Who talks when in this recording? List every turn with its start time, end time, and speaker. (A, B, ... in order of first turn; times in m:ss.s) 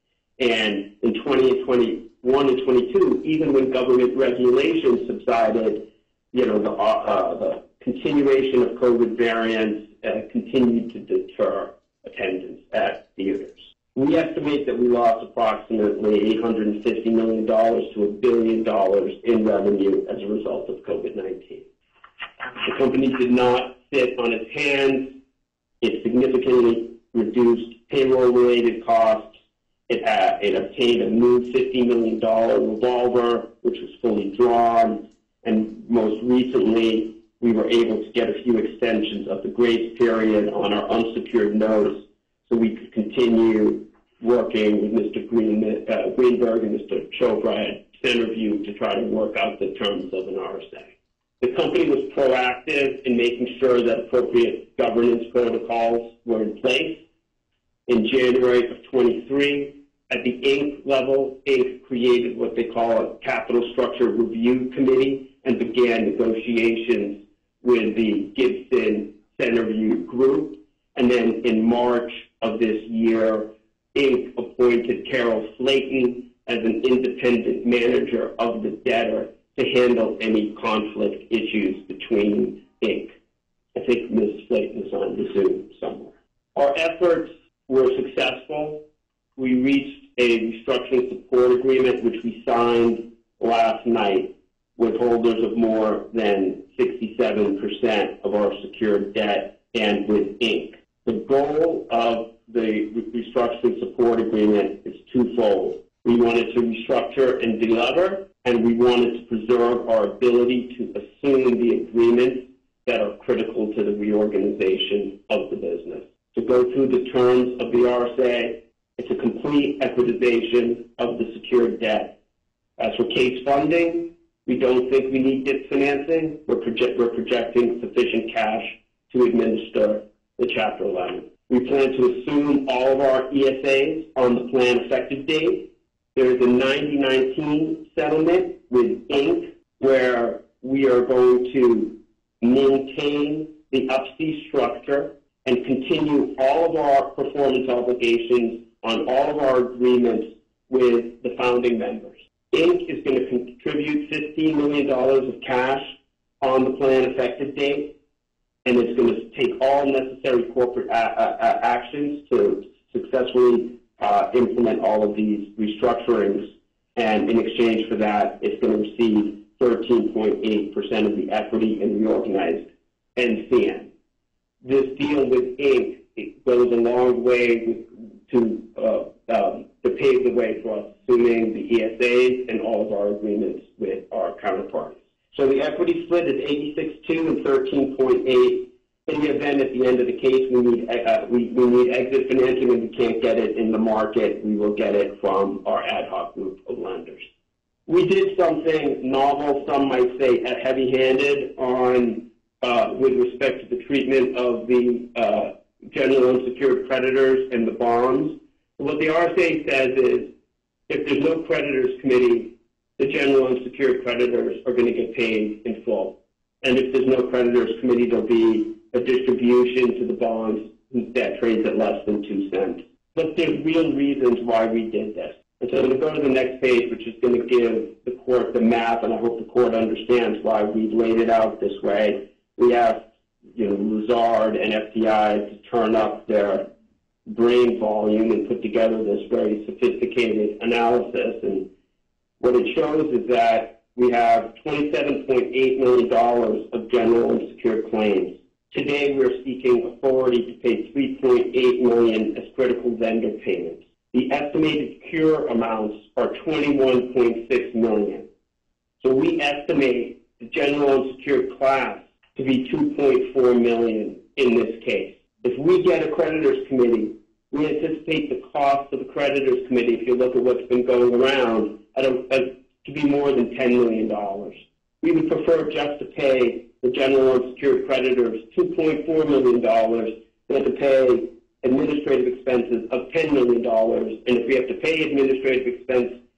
0:00.4-0:21.7 A
0:22.6-0:25.1 A
0:25.8-0:29.3 A
0:29.9-0:57.0 A
0:57.9-1:23.2 A
1:23.7-1:28.8 A
1:29.4-2:02.1 A
2:02.8-2:37.9 A
2:38.6-2:53.9 A
2:54.6-3:17.2 A
3:17.9-3:30.3 A
3:30.9-3:53.0 A
3:53.5-3:56.7 A
3:57.3-4:01.7 A
4:02.4-4:18.3 A
4:19.0-4:46.1 A